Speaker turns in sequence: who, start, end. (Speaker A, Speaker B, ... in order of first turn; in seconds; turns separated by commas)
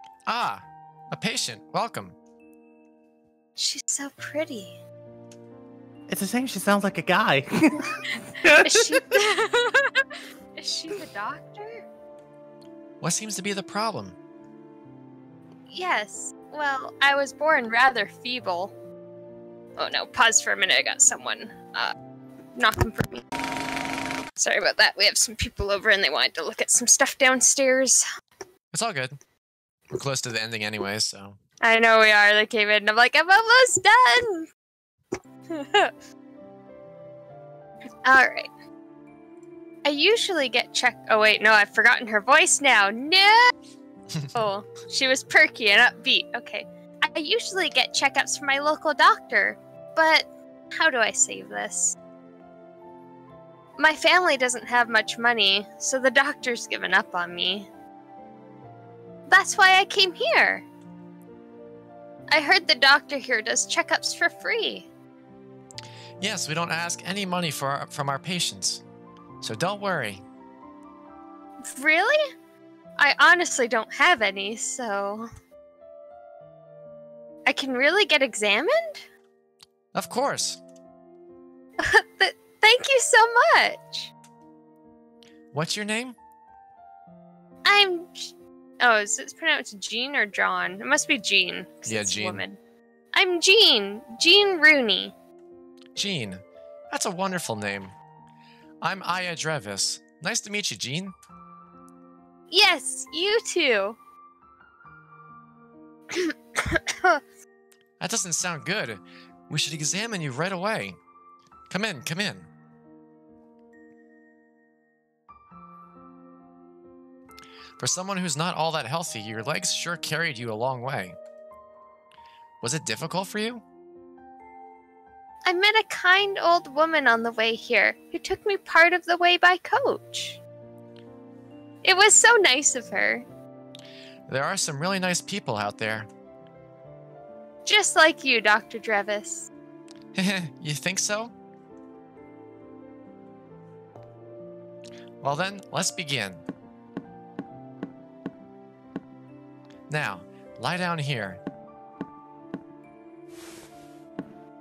Speaker A: 0.3-2.2, Speaker B: 3.6-4.8, Speaker C: 6.1-9.2, Speaker B: 7.8-11.8, Speaker A: 13.0-14.2, Speaker B: 15.7-18.7, Speaker B: 19.8-21.9, Speaker B: 22.6-23.3, Speaker B: 24.4-28.1, Speaker A: 28.7-29.2, Speaker A: 29.9-31.4, Speaker B: 31.6-34.5, Speaker B: 35.5-35.9, Speaker B: 38.0-38.5, Speaker B: 39.8-43.5, Speaker B: 44.4-52.0, Speaker B: 53.8-57.7, Speaker B: 59.3-60.7, Speaker B: 62.3-64.9, Speaker A: 66.2-68.8, Speaker A: 69.4-70.2, Speaker B: 71.6-72.2, Speaker B: 73.0-75.3, Speaker B: 77.5-79.0, Speaker A: 79.9-80.6, Speaker B: 81.8-84.1, Speaker A: 85.5-86.2, Speaker B: 87.7-92.6, Speaker A: 91.9-92.4, Speaker B: 93.1-95.1, Speaker A: 96.0-98.0, Speaker A: 98.8-101.2, Speaker B: 102.5-104.0, Speaker B: 106.1-107.2, Speaker A: 108.0-111.0, Speaker A: 111.7-112.5, Speaker A: 117.8-121.2, Speaker A: 122.6-123.6, Speaker B: 125.5-130.4, Speaker B: 131.8-133.3, Speaker A: 134.3-136.1, Speaker B: 137.7-139.5, Speaker A: 140.2-141.3, Speaker A: 145.2-146.4, Speaker A: 149.9-151.4